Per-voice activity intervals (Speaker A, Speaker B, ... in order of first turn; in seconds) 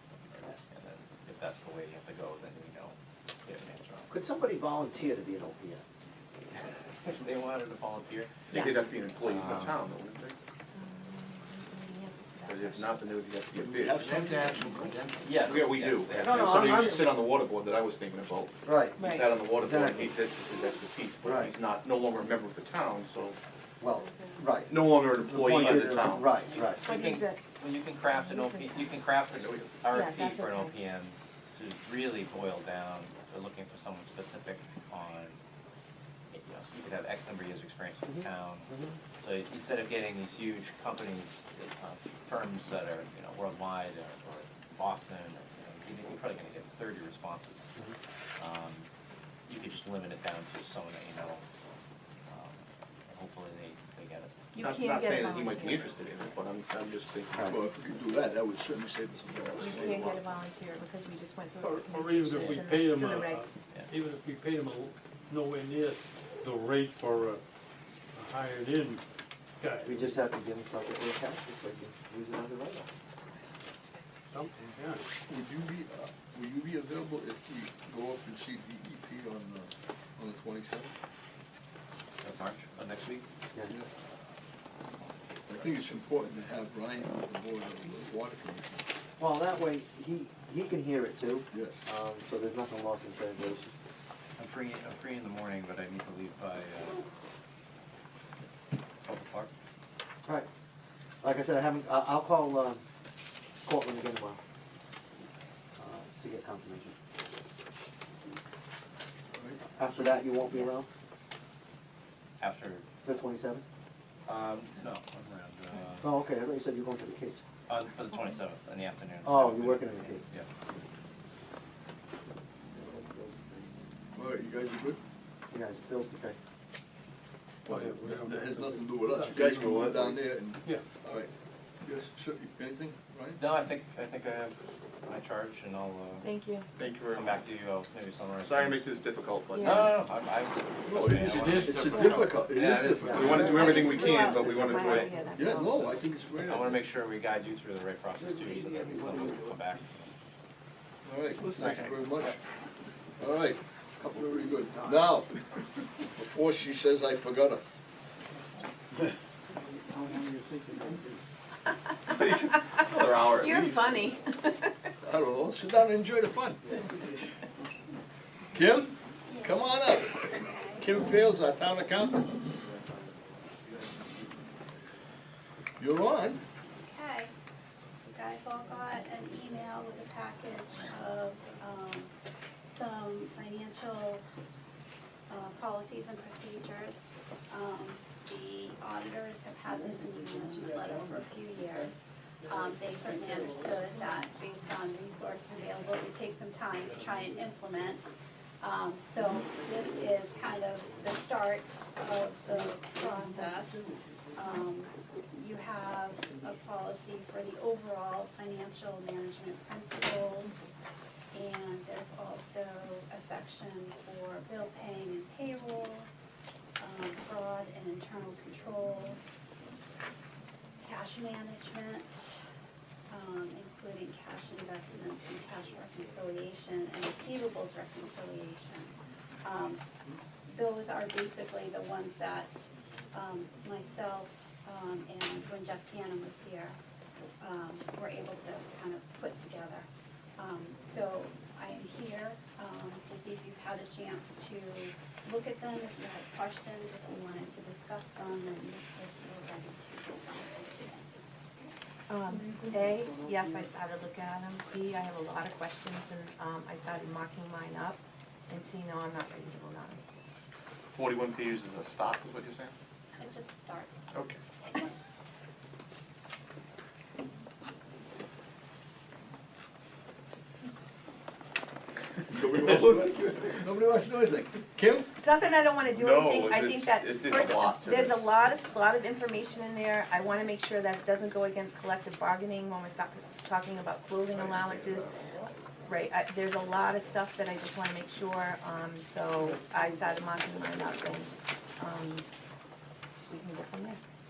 Speaker A: 0.3-4.1, 7.0-9.7, 15.2-16.8, 25.6-25.9, 26.4-35.4, 36.3-47.7, 48.4-48.9, 49.5-51.4, 52.3-54.3, 82.2-83.2, 85.0-85.4, 94.4-97.1, 99.0-99.5, 112.4-112.9, 114.3-116.1, 117.7-120.5, 133.4-136.3, 137.1-138.9, 139.6-144.0, 144.7-145.1, 146.4-150.2, 151.6-152.4
Speaker B: 4.1-5.8, 16.1-17.1, 18.7-20.1, 21.2-21.5, 23.8-26.8, 38.1-39.0, 57.3-57.6, 69.8-72.9, 89.2-93.7, 101.2-102.8, 103.6-104.4, 105.8-106.9, 109.7-110.9, 113.0-113.6, 116.0-117.4, 119.2-120.2, 122.7-123.7, 125.5-126.4, 143.0-145.3, 148.2-149.6, 154.0-155.2, 160.2-161.0, 172.7-174.2
Speaker C: 8.5-10.4, 12.5-23.4, 24.7-26.4, 29.3-29.7, 54.6-57.5, 59.5-60.2, 129.6-130.2, 136.8-137.4, 138.4-139.9, 143.1-145.2, 151.4-151.9, 162.1-164.0, 260.9-262.7, 264.1-264.4, 272.5-273.6, 275.9-278.3, 284.3-285.3
Speaker D: 8.5-8.8, 10.7-13.0, 19.0-19.3, 23.9-24.4, 26.8-27.4, 28.1-29.0, 29.9-30.7, 54.5-56.0, 59.6-63.6, 136.2-136.7, 139.5-139.9, 143.4-145.9, 163.0-164.9, 252.1-260.0, 275.2-285.1, 285.9-292.3, 293.3-294.0
Speaker E: 13.5-15.0, 57.5-60.1, 75.3-80.9, 85.5-88.8, 91.5-91.8, 109.3-110.3, 124.2-125.0, 127.7-131.3, 131.8-133.4, 140.9-144.0, 145.3-146.8, 151.1-152.4, 153.2-155.3, 156.1-157.6, 165.0-166.8, 168.5-172.5, 175.8-176.4, 272.3-275.1
Speaker F: 61.6-67.4, 68.1-69.0, 69.6-70.0, 74.3-75.1, 127.7-129.8, 141.3-142.4
Speaker G: 169.2-171.0, 176.7-177.3, 178.1-182.1, 182.7-184.2, 185.3-210.7, 211.3-216.1, 216.8-219.4, 220.8-222.4, 223.1-229.8, 230.5-236.8, 237.4-251.1, 263.2-264.1